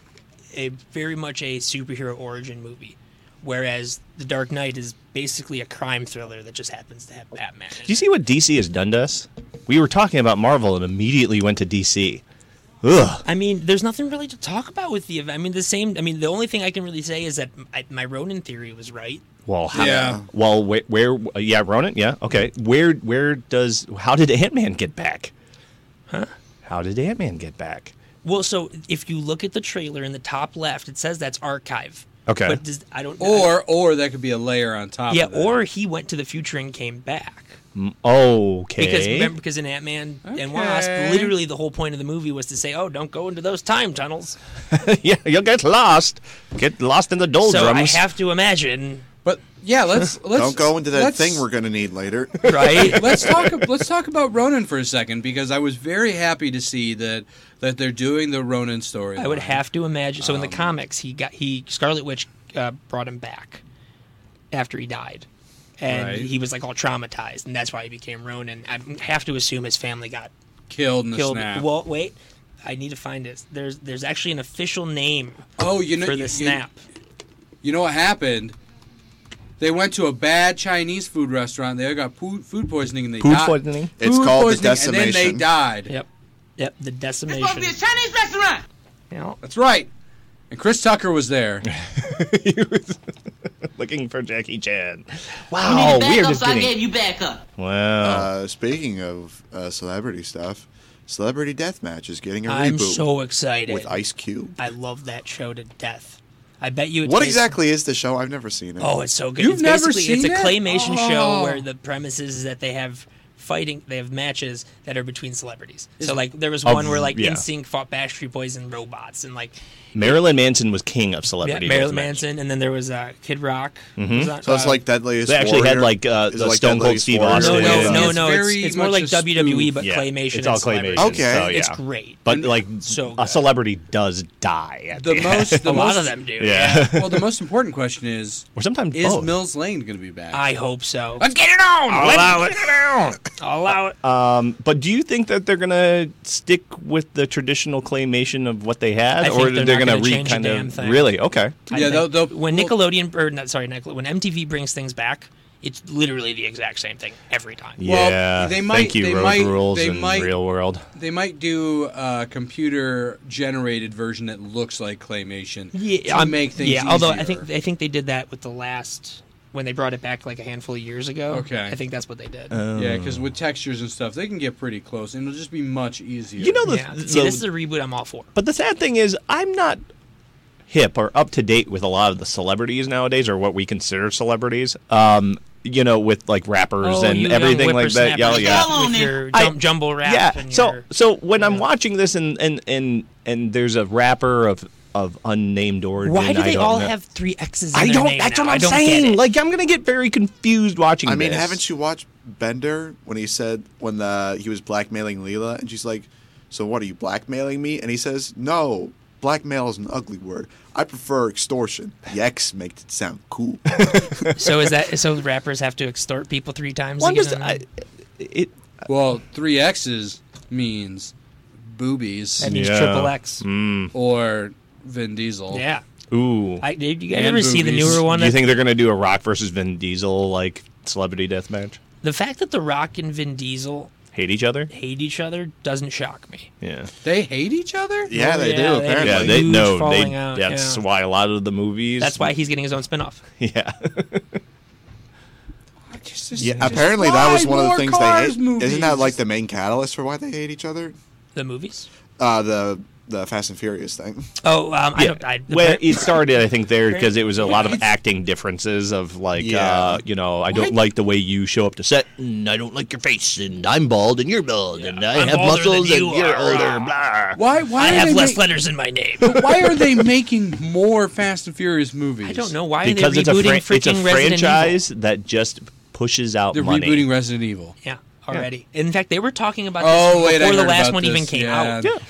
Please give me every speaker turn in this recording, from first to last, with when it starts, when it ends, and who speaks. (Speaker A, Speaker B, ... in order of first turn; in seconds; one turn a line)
Speaker A: 0.5-8.0
Speaker B: 7.8-12.2
Speaker B: 12.8-13.2
Speaker A: 13.2-19.2
Speaker B: 19.4-25.3
Speaker C: 19.7-20.2
Speaker D: 19.8-20.2
Speaker B: 26.6-27.9
Speaker A: 28.2-33.5
Speaker B: 32.3-32.6
Speaker C: 33.2-35.6
Speaker A: 35.1-37.6
Speaker B: 37.7-39.3
Speaker A: 38.8-44.4
Speaker C: 40.2-41.4
Speaker B: 44.7-48.0
Speaker A: 47.4-49.0
Speaker C: 49.2-51.4
Speaker D: 50.3-52.9
Speaker A: 52.4-53.1
Speaker B: 52.5-53.4
Speaker C: 52.9-59.6
Speaker A: 59.2-63.6
Speaker C: 60.2-60.7
Speaker A: 64.5-65.3
Speaker A: 65.8-70.3
Speaker C: 65.8-66.3
Speaker C: 70.7-71.7
Speaker A: 71.1-75.5
Speaker C: 75.6-76.6
Speaker A: 76.0-76.8
Speaker C: 77.6-78.5
Speaker C: 79.6-85.9
Speaker B: 83.2-83.9
Speaker D: 84.0-85.5
Speaker A: 85.9-87.7
Speaker E: 87.3-88.6
Speaker A: 89.1-89.4
Speaker C: 89.4-89.9
Speaker C: 90.5-91.7
Speaker B: 91.8-93.1
Speaker B: 93.6-96.7
Speaker E: 95.6-97.4
Speaker B: 97.6-98.3
Speaker D: 98.0-103.1
Speaker A: 102.5-103.9
Speaker D: 103.7-104.6
Speaker A: 104.6-107.5
Speaker D: 107.0-109.0
Speaker A: 108.8-120.2
Speaker C: 109.4-111.6
Speaker B: 116.6-117.4
Speaker B: 119.9-122.2
Speaker A: 121.4-124.8
Speaker B: 124.0-124.3
Speaker D: 124.4-128.1
Speaker B: 125.2-128.2
Speaker A: 127.3-133.4
Speaker C: 127.4-129.7
Speaker B: 129.8-137.2
Speaker D: 131.0-131.5
Speaker C: 132.3-132.6
Speaker C: 134.9-136.2
Speaker A: 135.6-136.9
Speaker C: 136.9-140.4
Speaker B: 138.6-139.4
Speaker A: 140.3-141.2
Speaker C: 141.2-142.6
Speaker B: 141.9-143.2
Speaker A: 143.4-143.9
Speaker B: 144.0-151.6
Speaker A: 149.2-151.2
Speaker A: 151.7-157.8
Speaker C: 151.7-152.8
Speaker B: 157.8-160.8
Speaker C: 157.8-160.3
Speaker C: 160.9-167.5
Speaker A: 165.7-172.6
Speaker C: 171.3-171.8
Speaker B: 172.5-173.3
Speaker C: 172.7-176.7
Speaker B: 176.4-177.4
Speaker A: 176.7-178.3
Speaker B: 178.3-179.8
Speaker B: 180.7-188.7
Speaker A: 186.8-190.8
Speaker E: 188.3-189.2
Speaker B: 189.3-196.9
Speaker A: 191.4-191.6
Speaker A: 196.0-199.2
Speaker B: 197.7-201.6
Speaker D: 201.0-214.3
Speaker A: 214.3-217.6
Speaker B: 217.0-218.5
Speaker C: 218.9-222.5
Speaker A: 222.4-223.4
Speaker B: 222.4-223.9
Speaker C: 223.9-225.6
Speaker A: 225.5-225.8
Speaker B: 226.1-226.6
Speaker A: 226.6-228.4
Speaker C: 227.1-228.0
Speaker B: 227.8-231.8
Speaker A: 232.0-233.9
Speaker B: 234.1-234.7
Speaker A: 234.7-236.5
Speaker B: 236.6-236.9
Speaker C: 237.0-238.1
Speaker D: 238.1-239.6
Speaker A: 238.1-240.8
Speaker B: 239.0-242.3
Speaker A: 242.0-243.2
Speaker B: 243.4-244.4
Speaker C: 245.9-249.2
Speaker D: 246.4-250.9
Speaker A: 251.3-251.9
Speaker D: 252.2-254.3
Speaker A: 254.4-256.1
Speaker B: 255.0-267.4
Speaker A: 256.9-257.8
Speaker C: 257.4-257.9
Speaker D: 259.4-260.0
Speaker A: 264.8-266.9
Speaker C: 267.4-268.5
Speaker A: 267.8-269.3
Speaker C: 269.2-272.5
Speaker B: 269.4-269.9
Speaker A: 272.2-274.8
Speaker B: 272.8-277.1
Speaker C: 276.5-277.7
Speaker A: 277.8-281.8
Speaker C: 279.8-281.9